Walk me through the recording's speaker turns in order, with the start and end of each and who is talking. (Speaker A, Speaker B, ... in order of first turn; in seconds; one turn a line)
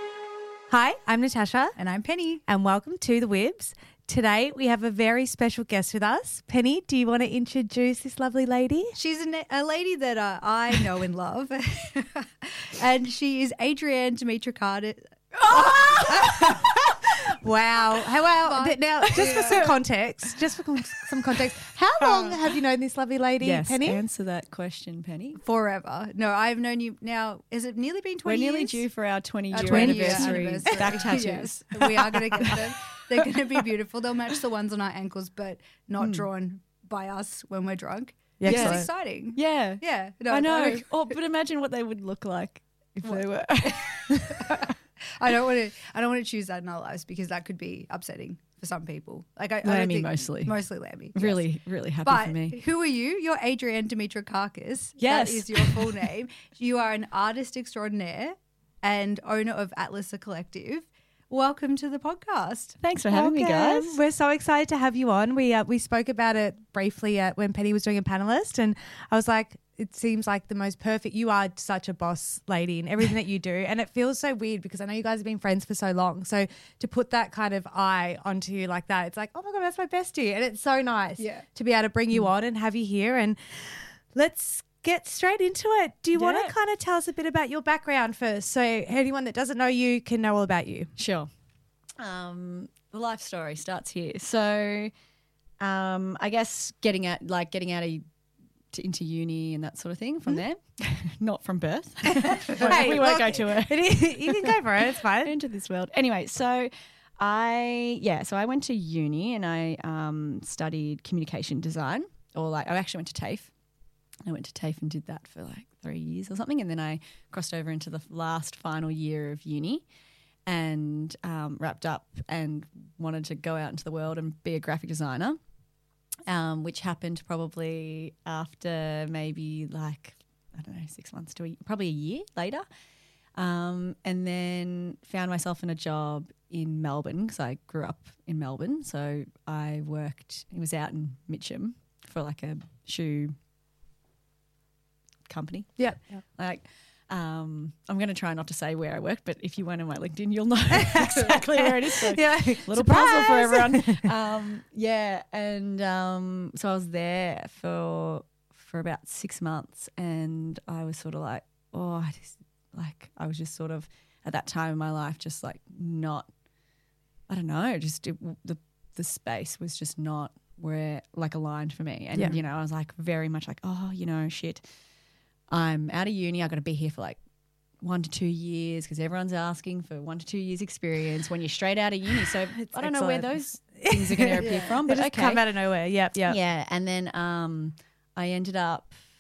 Speaker A: 0.7-1.8
Speaker B: 1.8-2.4
Speaker A: 2.5-9.0
Speaker B: 9.0-16.9
Speaker C: 15.3-16.8
Speaker A: 17.3-24.0
Speaker B: 18.4-19.7
Speaker C: 19.1-19.7
Speaker C: 22.0-22.3
Speaker C: 23.4-25.4
Speaker B: 25.4-28.8
Speaker C: 28.2-33.3
Speaker B: 29.5-40.9
Speaker A: 29.6-30.8
Speaker C: 36.0-36.2
Speaker A: 38.4-38.9
Speaker C: 38.5-44.7
Speaker B: 43.1-51.5
Speaker C: 49.6-50.6
Speaker C: 51.1-52.6
Speaker B: 52.0-62.8
Speaker C: 55.0-56.0
Speaker C: 62.8-64.0
Speaker A: 63.1-90.9
Speaker B: 81.2-81.5
Speaker C: 86.1-86.5
Speaker C: 91.0-91.3
Speaker C: 92.0-94.9
Speaker C: 95.6-98.0
Speaker C: 98.7-113.5
Speaker A: 102.6-105.3
Speaker C: 114.2-119.8
Speaker C: 120.5-125.4
Speaker C: 126.3-132.7
Speaker C: 133.4-143.3
Speaker C: 145.3-166.3
Speaker A: 145.8-146.2
Speaker A: 150.8-154.1
Speaker C: 167.3-174.7
Speaker C: 175.5-177.2
Speaker C: 177.8-185.4
Speaker A: 182.6-186.4
Speaker B: 184.4-184.8
Speaker C: 186.3-189.0